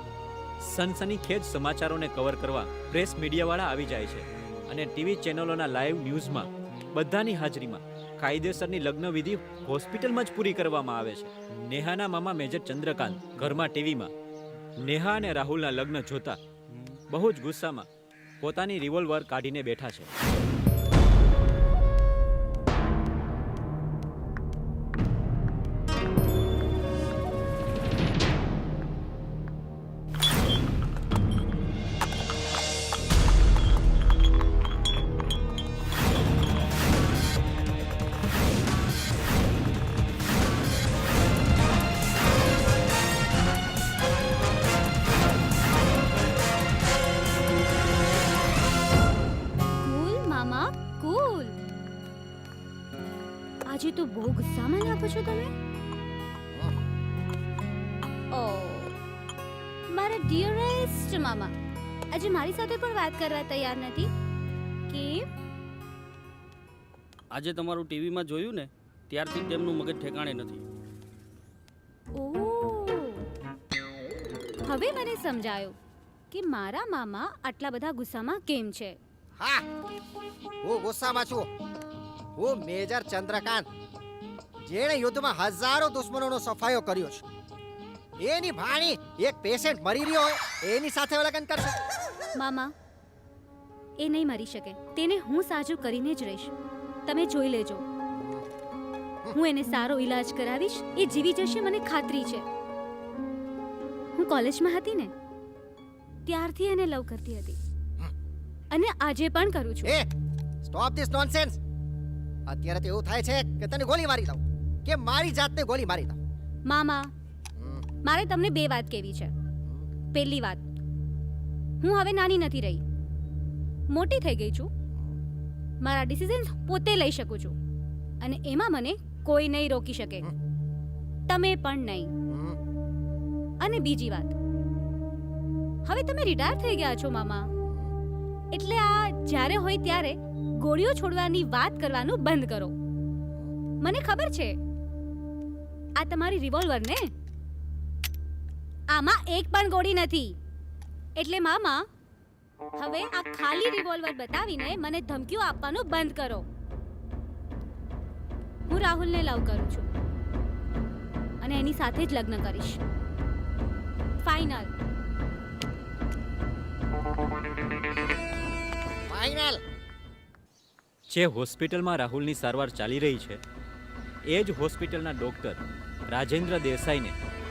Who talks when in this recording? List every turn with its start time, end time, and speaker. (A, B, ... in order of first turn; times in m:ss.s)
0:00.6-0:14.1 A
0:14.8-0:16.4 A
0:17.1-0:17.9 A
0:18.4-0:20.1 A
0:49.8-0:51.6 B
0:53.7-0:55.5 B
0:56.5-0:56.8 C
0:58.3-0:59.0 B
0:59.9-1:01.5 B
1:02.1-1:04.1 B
1:04.9-1:05.3 B
1:07.3-1:10.6 D
1:12.1-1:13.2 B
1:14.6-1:15.8 B
1:16.3-1:19.0 B
1:19.4-1:19.6 C
1:20.6-1:21.5 C
1:22.4-1:23.7 C
1:24.6-1:27.2 C
1:28.2-1:31.8 C
1:32.3-1:32.7 B
1:34.0-1:36.5 B
1:37.1-1:37.8 B
1:38.1-1:38.4 C
1:39.3-1:42.4 B
1:44.2-1:45.1 B
1:46.2-1:47.6 B
1:48.7-1:50.0 B
1:49.8-1:50.1 C
1:50.6-1:51.6 C
1:52.5-1:56.2 C
1:56.7-1:57.1 B
1:57.6-1:57.8 C
1:58.0-1:59.3 B
2:00.1-2:00.6 B
2:01.8-2:02.8 B
2:03.9-2:04.7 B
2:05.8-2:07.6 B
2:08.2-2:10.3 B
2:11.3-2:12.1 B
2:12.3-2:12.6 C
2:13.6-2:14.4 B
2:15.8-2:17.5 B
2:17.5-2:17.9 C
2:18.5-2:22.7 B
2:23.8-2:24.6 B
2:26.0-2:27.1 B
2:28.9-2:30.4 B
2:31.2-2:31.8 B
2:32.8-2:36.4 B
2:38.7-2:39.8 B
2:41.4-2:42.8 B
2:44.2-2:44.7 B
2:49.1-2:49.6 C
2:51.1-2:53.4 A
2:54.2-2:57.1 A